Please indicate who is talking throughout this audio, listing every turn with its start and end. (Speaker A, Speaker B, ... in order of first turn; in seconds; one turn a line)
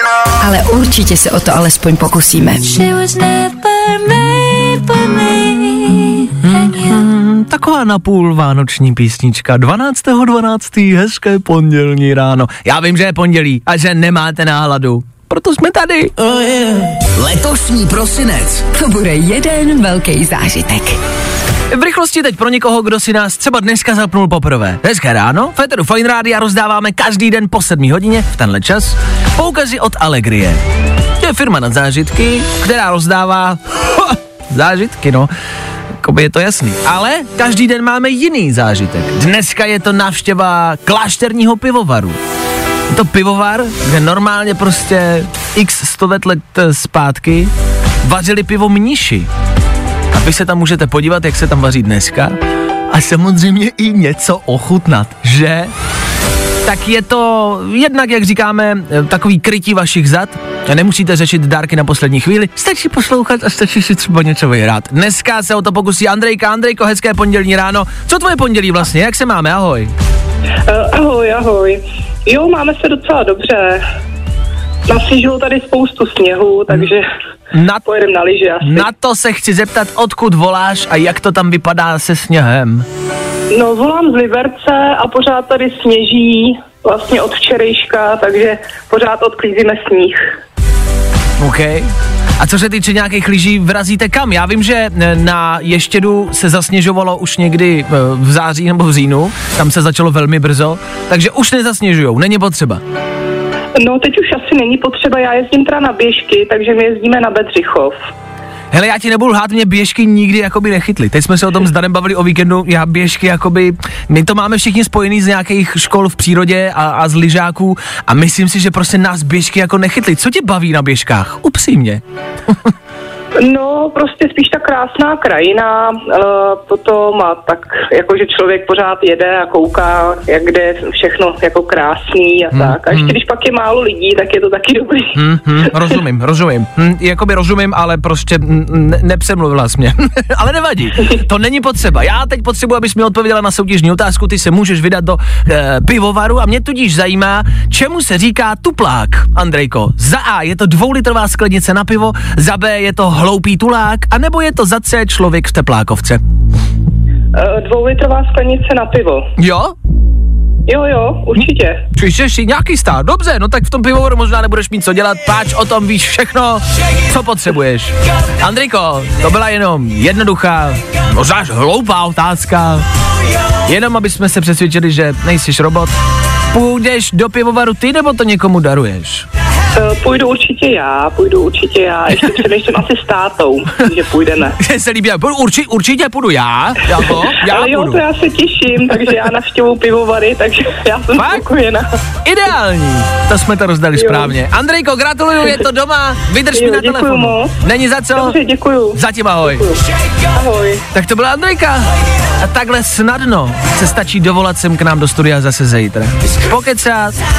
Speaker A: 0.4-2.7
Speaker B: 2.7-7.0
Speaker C: 6.4-16.1
Speaker D: 16.2-18.6
Speaker A: 18.7-21.0
Speaker C: 21.7-30.6
Speaker C: 31.2-35.3
Speaker C: 36.0-42.2
Speaker C: 42.9-47.5
Speaker C: 48.0-49.3
Speaker C: 50.1-52.4
Speaker C: 52.9-55.7
Speaker C: 56.6-69.9
Speaker E: 70.7-73.8
Speaker E: 74.9-77.1
Speaker C: 77.5-77.8
Speaker E: 77.8-78.8
Speaker C: 78.6-82.8
Speaker E: 83.5-90.3
Speaker C: 91.4-91.9
Speaker C: 92.4-102.8
Speaker E: 103.8-108.0
Speaker C: 108.7-122.7
Speaker E: 123.4-135.9
Speaker C: 132.5-133.1
Speaker C: 135.1-156.2
Speaker E: 157.3-159.3
Speaker C: 159.4-159.7
Speaker E: 160.7-161.8
Speaker C: 161.9-172.8
Speaker C: 173.7-175.9
Speaker C: 176.5-179.3
Speaker E: 179.7-184.6
Speaker C: 184.6-188.0
Speaker E: 187.0-191.9
Speaker C: 191.2-191.4
Speaker C: 192.2-198.3
Speaker E: 194.0-194.3
Speaker E: 196.5-197.5
Speaker E: 198.1-199.8
Speaker C: 198.9-199.7
Speaker E: 200.3-200.8
Speaker C: 200.9-201.8
Speaker C: 202.4-207.2